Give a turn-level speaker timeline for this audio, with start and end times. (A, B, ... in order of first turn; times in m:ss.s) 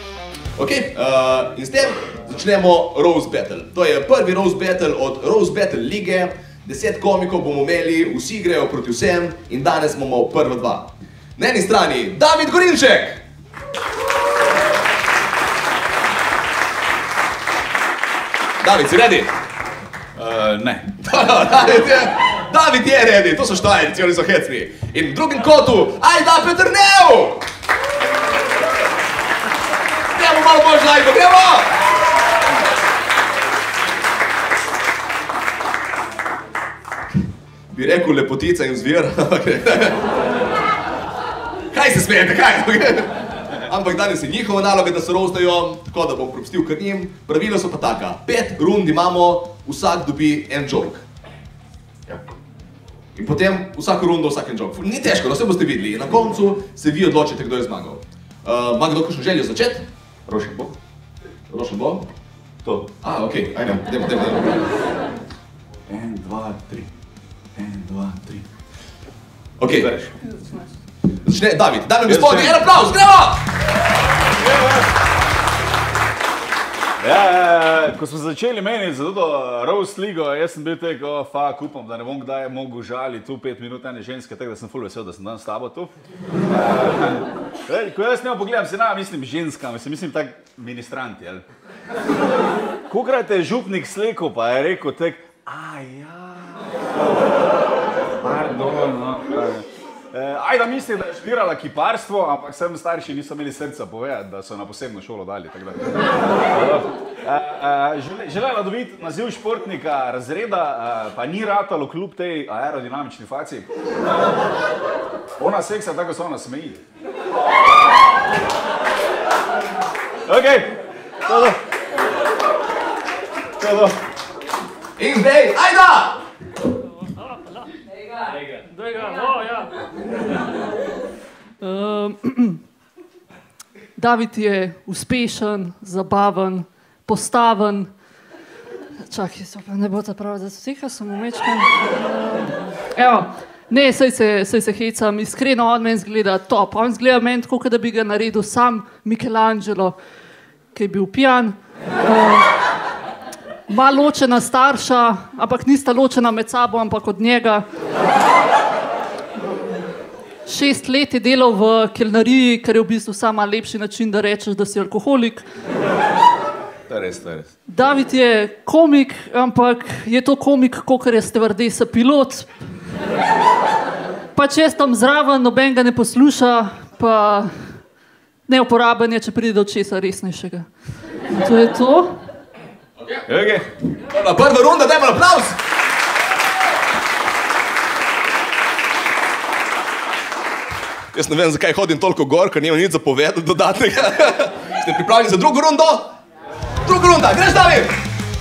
0:00.6-0:13.2 A
0:18.6-0:19.3 A
0:20.2-0:21.0 B
0:21.0-0:27.4 A
0:30.1-0:31.7 A
0:37.7-0:40.0 A
0:41.7-0:51.0 A
0:53.2-0:59.9 A
1:00.3-1:00.7 B
1:01.5-1:02.1 A
1:02.6-1:02.9 B
1:03.0-1:04.5 A
1:05.9-1:06.9 B
1:07.6-1:08.4 B
1:09.6-1:09.9 A
1:09.7-1:10.1 B
1:11.2-1:13.4 A
1:12.1-1:12.7 B
1:14.4-1:14.8 B
1:17.0-1:25.9 B
1:26.5-1:31.4 B
1:32.9-1:36.6 B
1:38.2-1:53.7 B
1:55.4-1:56.8 B
2:00.3-2:01.6 B
2:03.6-2:04.0 B
2:05.0-2:06.2 A
2:11.6-2:12.6 C
2:14.0-2:17.9 C
2:19.0-2:21.9 C
2:22.9-2:30.0 C
2:30.7-2:32.5 C
2:33.7-2:37.6 C
2:40.5-2:45.5 C
2:46.9-2:47.5 B
2:47.7-2:52.5 C
2:54.4-2:57.8 C
2:58.5-3:00.7 C
3:01.3-3:02.2 C
3:03.3-3:03.7 B
3:04.1-3:05.6 A
3:11.1-3:16.1 A
3:16.8-3:18.0 A